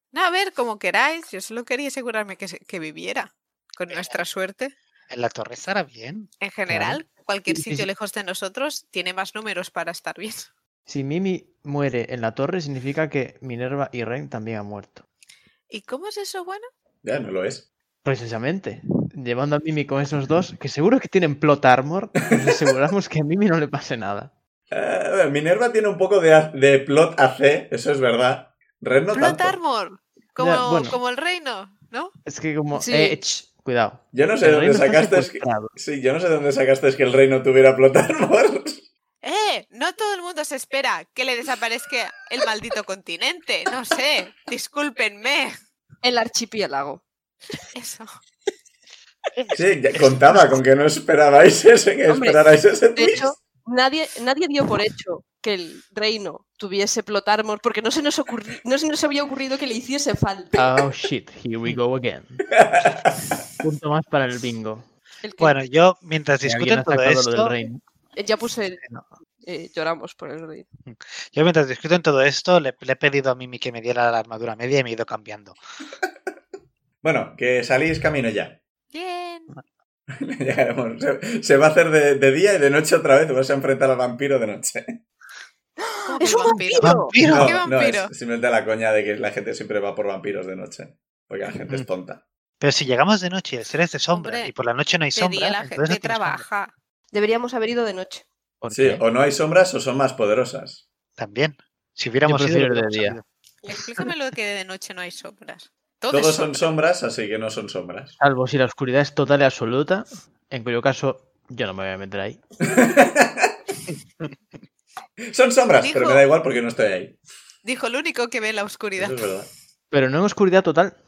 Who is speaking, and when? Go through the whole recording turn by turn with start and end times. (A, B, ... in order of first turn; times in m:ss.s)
0:00.1-0:04.7 A
0:05.1-0:06.3 B
0:06.4-0:10.5 A
0:06.7-0:07.9 C
0:10.9-0:15.0 C
0:15.7-0:16.6 A
0:17.0-0:17.7 D
0:18.0-0:24.3 C
0:22.2-0:22.5 D
0:24.7-0:29.6 D
0:29.1-0:32.1 A
0:30.4-0:31.0 C
0:32.2-0:35.7 C
0:32.7-0:33.2 E
0:34.1-0:38.8 D
0:39.2-0:45.6 A
0:46.0-0:47.0 E
0:47.7-0:48.1 A
0:49.4-0:50.6 B
0:49.5-0:53.4 D
0:52.1-1:00.8 E
1:00.6-1:02.5 C
1:02.5-1:03.5 D
1:03.6-1:04.8 C
1:05.2-1:05.5 E
1:05.4-1:07.5 B
1:06.4-1:07.8 C
1:08.2-1:08.8 E
1:09.4-1:10.6 E
1:10.9-1:15.6 B
1:17.0-1:18.6 D
1:18.9-1:19.6 A
1:20.2-1:25.0 D
1:25.8-1:27.2 E
1:26.0-1:28.1 A
1:26.8-1:27.6 B
1:27.2-1:32.2 D
1:32.6-1:36.4 B
1:34.1-1:34.5 A
1:35.1-1:36.7 A
1:37.1-1:38.2 E
1:38.6-1:39.0 C
1:38.7-1:40.9 D
1:41.2-1:43.2 B
1:42.2-1:43.2 C
1:43.6-1:46.6 A
1:46.1-1:48.2 D
1:48.2-1:52.4 C
1:52.6-1:53.6 D
1:55.3-1:57.2 D
1:55.8-1:56.2 A
1:57.6-1:59.3 A
1:59.0-1:59.5 D
1:59.9-2:01.0 C